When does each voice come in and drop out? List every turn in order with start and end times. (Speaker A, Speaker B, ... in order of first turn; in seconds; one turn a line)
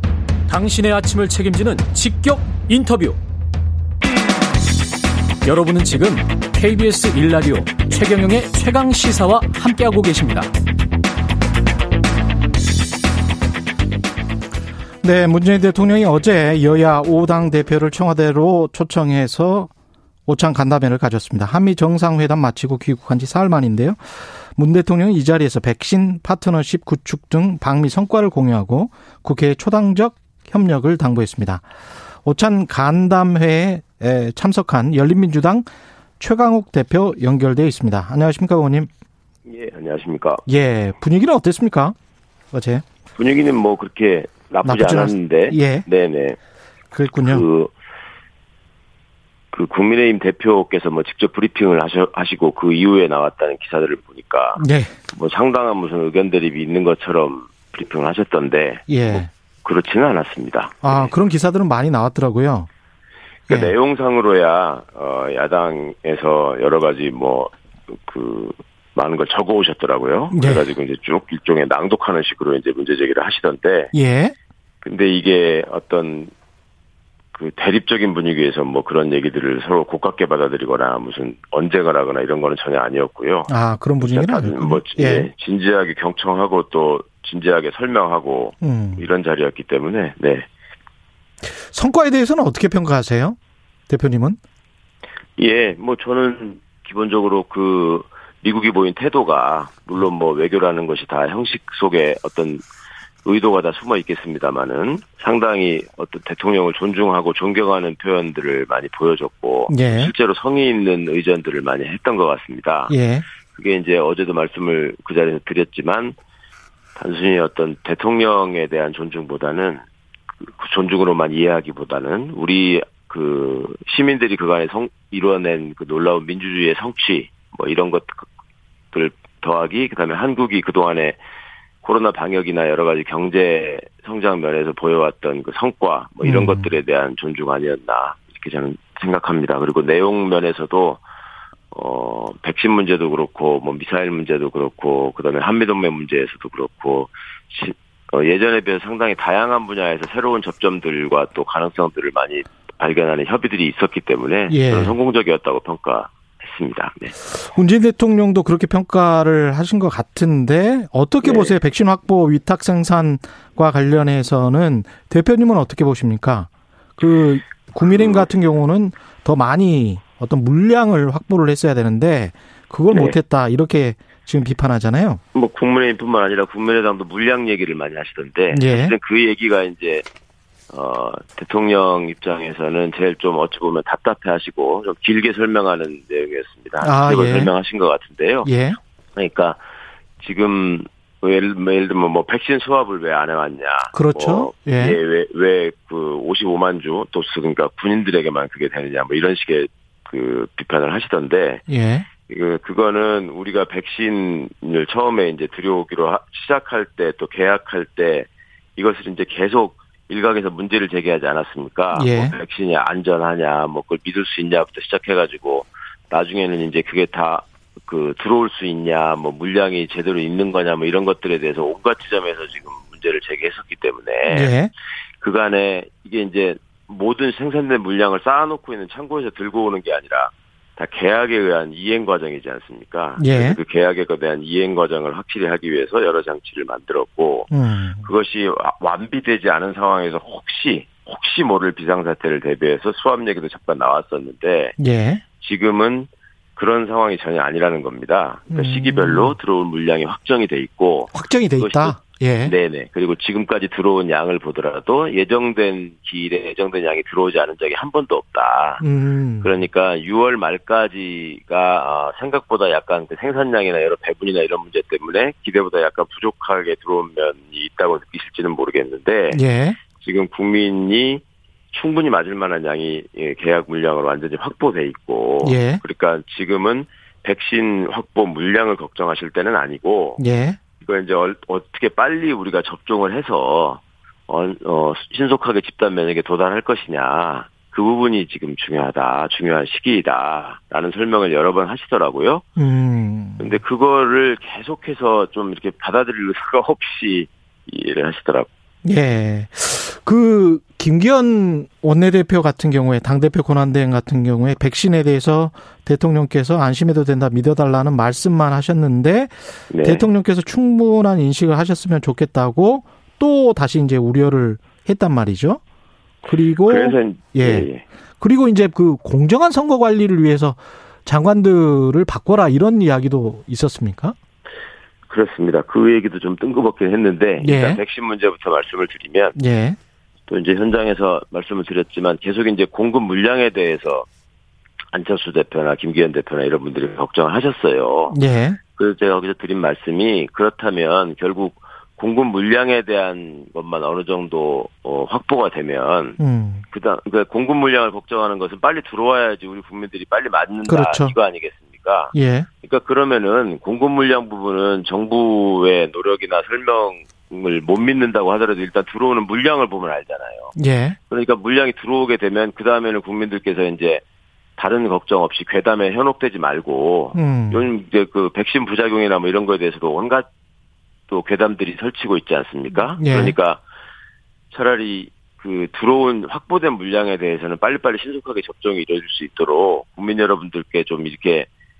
Speaker A: 0.5-3.2
Speaker A: 5.4-10.5
Speaker B: 15.0-19.7
Speaker B: 20.3-24.0
Speaker B: 24.6-31.6
Speaker B: 32.2-35.6
Speaker B: 36.2-38.9
Speaker C: 39.4-40.4
Speaker B: 40.5-41.9
Speaker B: 42.5-42.8
Speaker C: 43.1-46.4
Speaker B: 44.6-45.9
Speaker B: 46.9-47.5
Speaker C: 47.2-47.7
Speaker C: 49.5-61.1
Speaker B: 54.6-54.9
Speaker B: 58.9-59.3
Speaker B: 60.8-62.7
Speaker B: 63.5-63.7
Speaker C: 63.5-73.9
Speaker B: 70.3-70.7
Speaker B: 73.9-74.3
Speaker C: 74.8-76.3
Speaker C: 77.3-90.5
Speaker B: 83.5-85.3
Speaker B: 88.6-89.1
Speaker B: 91.5-93.4
Speaker B: 93.9-94.4
Speaker C: 95.4-102.6
Speaker C: 103.2-112.9
Speaker B: 109.7-110.1
Speaker B: 112.9-113.2
Speaker C: 113.5-116.2
Speaker C: 117.0-119.8
Speaker C: 120.4-128.2
Speaker C: 128.9-131.2
Speaker C: 131.8-141.0
Speaker B: 136.2-136.7
Speaker C: 141.7-157.1
Speaker B: 154.5-154.9
Speaker B: 157.4-175.2
Speaker C: 161.2-161.6
Speaker C: 167.8-168.3
Speaker C: 172.9-173.2
Speaker C: 175.3-180.0
Speaker B: 178.5-178.9
Speaker C: 180.7-188.5
Speaker B: 186.8-187.5
Speaker B: 188.4-188.8
Speaker C: 189.2-189.6
Speaker C: 190.2-201.6
Speaker B: 193.9-195.0
Speaker B: 201.7-202.1
Speaker C: 202.3-224.5
Speaker B: 211.9-212.3
Speaker B: 224.3-224.7
Speaker C: 225.2-237.5
Speaker B: 233.2-233.6
Speaker B: 237.5-238.1
Speaker C: 238.0-244.8
Speaker B: 244.8-245.2
Speaker C: 245.4-258.8
Speaker B: 248.5-249.3
Speaker B: 251.1-252.5
Speaker B: 258.8-259.6
Speaker C: 259.4-269.4
Speaker B: 269.3-269.8
Speaker C: 270.0-280.2
Speaker B: 275.4-275.8
Speaker B: 280.2-280.6
Speaker C: 280.8-292.4
Speaker B: 292.6-293.6
Speaker C: 293.4-298.5
Speaker B: 298.8-315.6
Speaker C: 309.7-310.1
Speaker B: 316.3-317.7
Speaker C: 316.6-317.8
Speaker B: 318.2-324.1
Speaker C: 325.1-329.4
Speaker B: 327.4-327.8
Speaker B: 329.4-329.8
Speaker C: 330.3-334.1
Speaker C: 334.9-338.2
Speaker B: 338.1-338.6
Speaker C: 338.7-346.2
Speaker B: 346.2-346.6
Speaker C: 346.7-360.5
Speaker B: 350.7-351.1
Speaker B: 352.1-352.5
Speaker B: 360.6-361.0
Speaker C: 361.1-364.0
Speaker C: 364.6-370.3
Speaker B: 367.1-367.7
Speaker C: 371.1-373.6
Speaker B: 373.0-373.4
Speaker C: 374.5-381.5